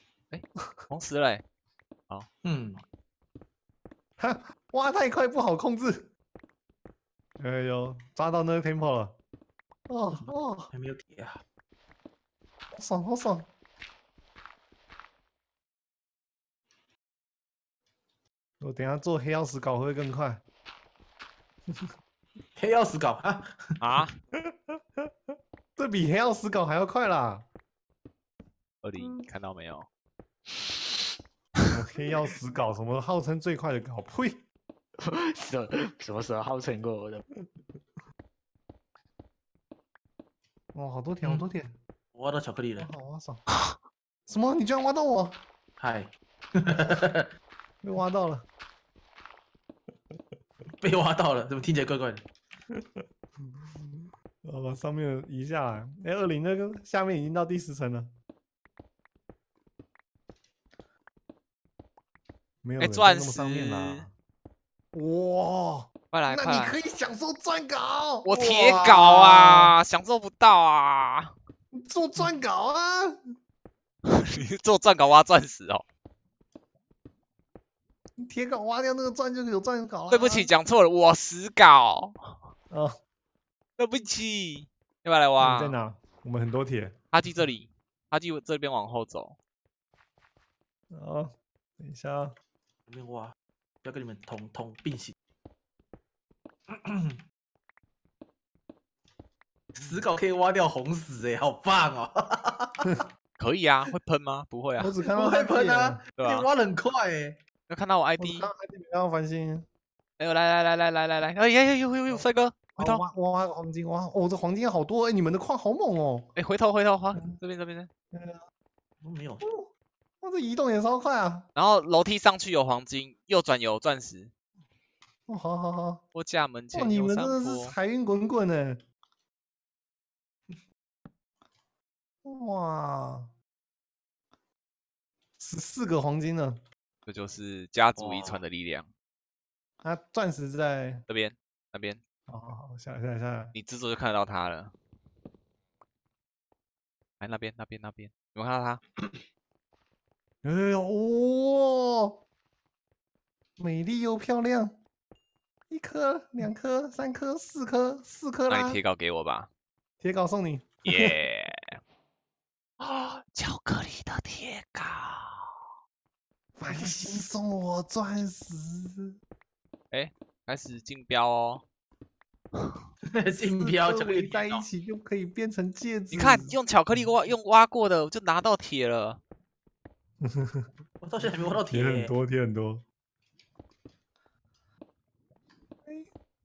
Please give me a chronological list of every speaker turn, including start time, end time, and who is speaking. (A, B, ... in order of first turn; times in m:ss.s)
0:00.3-0:01.4 A
0:02.4-0:02.8 B
0:04.2-0:06.1 C
0:07.4-0:09.2 C
0:09.9-0:10.7 C
0:10.1-0:11.4 B
0:12.7-0:13.5 C
0:18.6-0:20.4 C
0:22.6-0:23.5 B
0:23.8-0:24.1 A
0:24.4-0:25.1 C
0:25.8-0:27.4 C
0:28.8-0:29.9 A
0:31.7-0:34.4 C
0:35.0-0:37.2 D
0:40.7-0:41.8 C
0:42.1-0:42.9 B
0:42.8-0:43.4 C
0:43.5-0:43.8 A
0:44.3-0:45.4 C
0:45.8-0:47.3 B
0:47.8-0:48.4 C
0:50.8-0:52.2 B
0:52.7-0:58.1 C
1:02.6-1:04.1 C
1:02.8-1:04.1 A
1:04.9-1:09.8 C
1:06.1-1:06.8 A
1:08.2-1:11.3 A
1:11.7-1:13.2 C
1:14.0-1:15.8 A
1:18.2-1:20.5 C
1:20.1-1:22.4 A
1:22.7-1:22.9 C
1:23.8-1:25.8 A
1:25.4-1:27.0 C
1:27.1-1:29.4 A
1:30.9-1:32.4 C
1:32.9-1:35.1 B
1:36.7-1:37.2 B
1:39.7-1:40.1 C
1:39.8-1:43.0 B
1:43.4-1:44.9 A
1:44.8-1:46.0 C
1:45.0-1:47.4 B
1:46.2-1:46.5 A
1:47.7-1:48.5 A
1:48.2-1:49.7 C
1:50.2-1:53.0 A
1:52.1-1:56.3 C
1:56.3-1:57.9 A
1:57.1-1:57.4 C
1:58.1-1:58.4 C
1:59.0-1:59.4 B
1:59.4-1:59.7 C
2:00.2-2:01.4 C
2:01.5-2:04.3 A
2:05.3-2:06.0 C
2:06.1-2:07.8 A
2:06.7-2:08.8 C
2:12.2-2:13.3 C
2:15.4-2:16.6 C
2:17.0-2:18.9 A
2:18.0-2:18.4 B
2:19.8-2:21.0 C
2:21.1-2:22.0 A
2:22.3-2:23.5 C
2:23.5-2:24.7 A
2:27.2-2:28.8 A
2:30.4-2:32.2 C
2:33.6-2:34.8 C
2:35.7-2:38.8 C
2:38.5-2:39.5 A
2:40.0-2:41.1 C
2:40.8-2:41.8 A
2:42.8-2:45.6 A
2:46.6-2:49.2 C
2:46.7-2:47.0 A
2:49.9-2:51.6 A
2:52.5-2:52.8 A
2:53.0-2:54.6 B
2:53.3-2:57.1 C
2:56.1-2:59.2 A
3:00.2-3:00.7 C
3:01.0-3:02.1 B
3:01.7-3:02.8 C
3:05.8-3:06.1 C